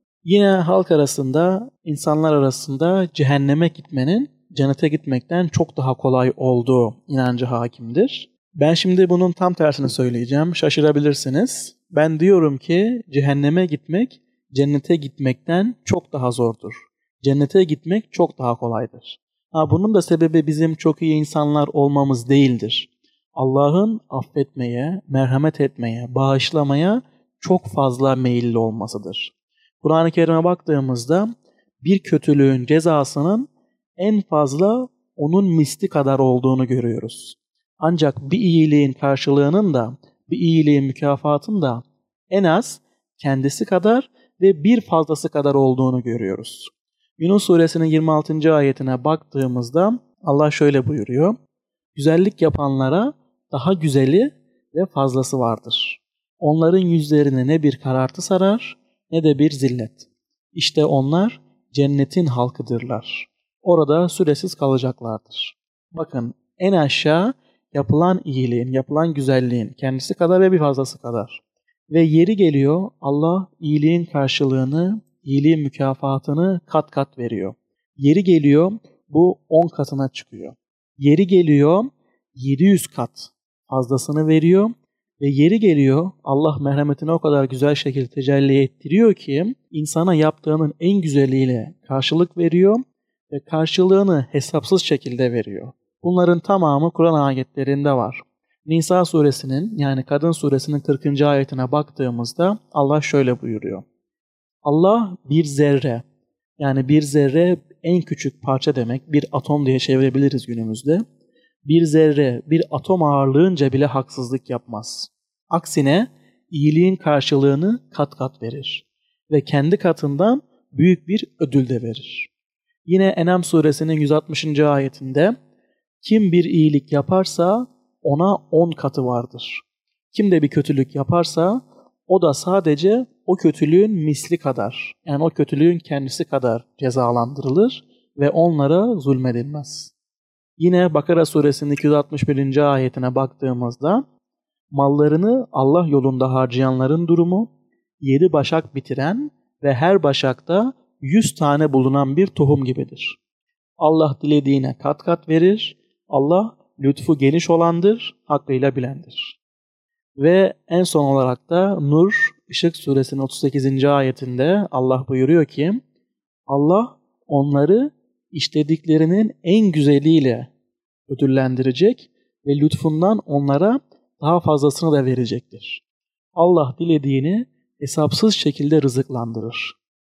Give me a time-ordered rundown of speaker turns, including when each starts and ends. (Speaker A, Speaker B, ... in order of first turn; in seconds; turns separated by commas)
Speaker A: 0.2-31.3, Speaker A: 31.8-51.4, Speaker A: 51.9-103.8, Speaker A: 104.6-106.0, Speaker A: 106.6-111.0, Speaker A: 111.7-122.3, Speaker A: 122.9-125.3, Speaker A: 126.0-139.9, Speaker A: 140.6-144.0, Speaker A: 144.7-147.5, Speaker A: 148.0-153.2, Speaker A: 153.8-159.3, Speaker A: 160.2-165.8, Speaker A: 166.5-170.5, Speaker A: 171.1-175.8, Speaker A: 176.4-179.7